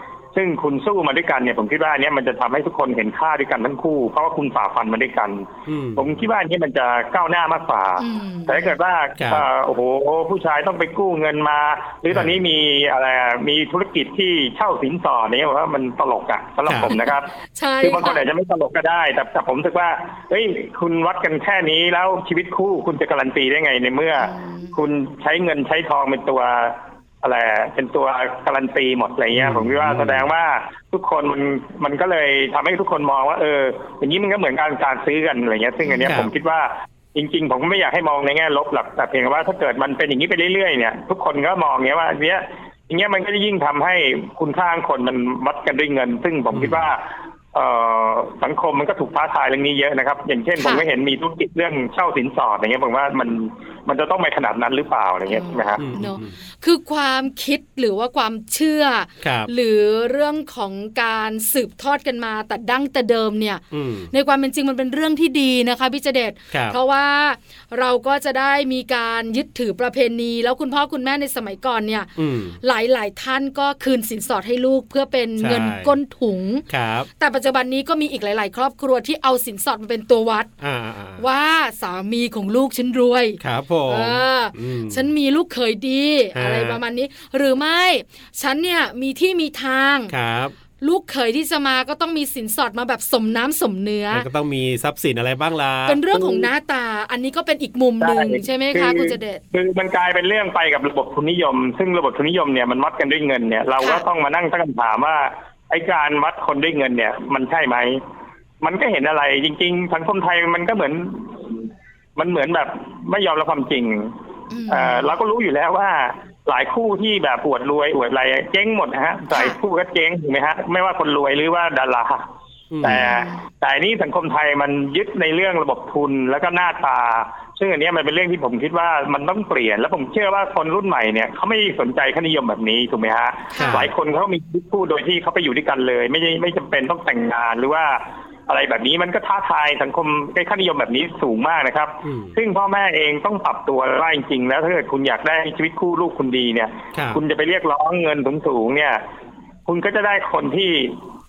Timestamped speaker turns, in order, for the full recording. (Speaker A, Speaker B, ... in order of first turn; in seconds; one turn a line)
Speaker A: 0.3-17.3
Speaker B: 5.7-6.2
Speaker C: 8.0-8.8
Speaker B: 9.2-9.5
Speaker B: 16.7-16.9
Speaker C: 16.9-18.2
Speaker A: 17.8-55.9
Speaker C: 24.2-24.7
Speaker B: 29.3-30.3
Speaker C: 35.8-36.1
Speaker B: 36.1-36.3
Speaker B: 46.5-46.9
Speaker C: 50.6-50.9
Speaker C: 55.3-72.1
Speaker B: 55.8-56.4
Speaker B: 59.2-59.5
Speaker B: 63.7-64.1
Speaker B: 66.5-66.8
Speaker B: 72.2-72.6
Speaker C: 72.6-76.7
Speaker B: 75.4-76.0
Speaker B: 76.7-77.1
Speaker C: 77.2-80.5
Speaker B: 80.6-81.2
Speaker C: 81.2-90.1
Speaker B: 83.4-85.1
Speaker B: 86.3-86.8
Speaker B: 90.1-90.5
Speaker C: 90.8-94.3
Speaker B: 94.1-96.0
Speaker C: 95.9-99.4
Speaker A: 96.1-96.5
Speaker A: 98.0-108.0
Speaker C: 103.8-104.0
Speaker A: 108.6-114.1
Speaker C: 114.5-115.1
Speaker A: 114.7-122.2
Speaker C: 119.3-119.6
Speaker B: 122.7-123.0
Speaker A: 122.8-149.0
Speaker C: 122.8-123.4
Speaker C: 133.5-133.9
Speaker B: 133.6-133.9
Speaker B: 142.0-142.4
Speaker B: 146.9-147.2
Speaker A: 149.7-151.0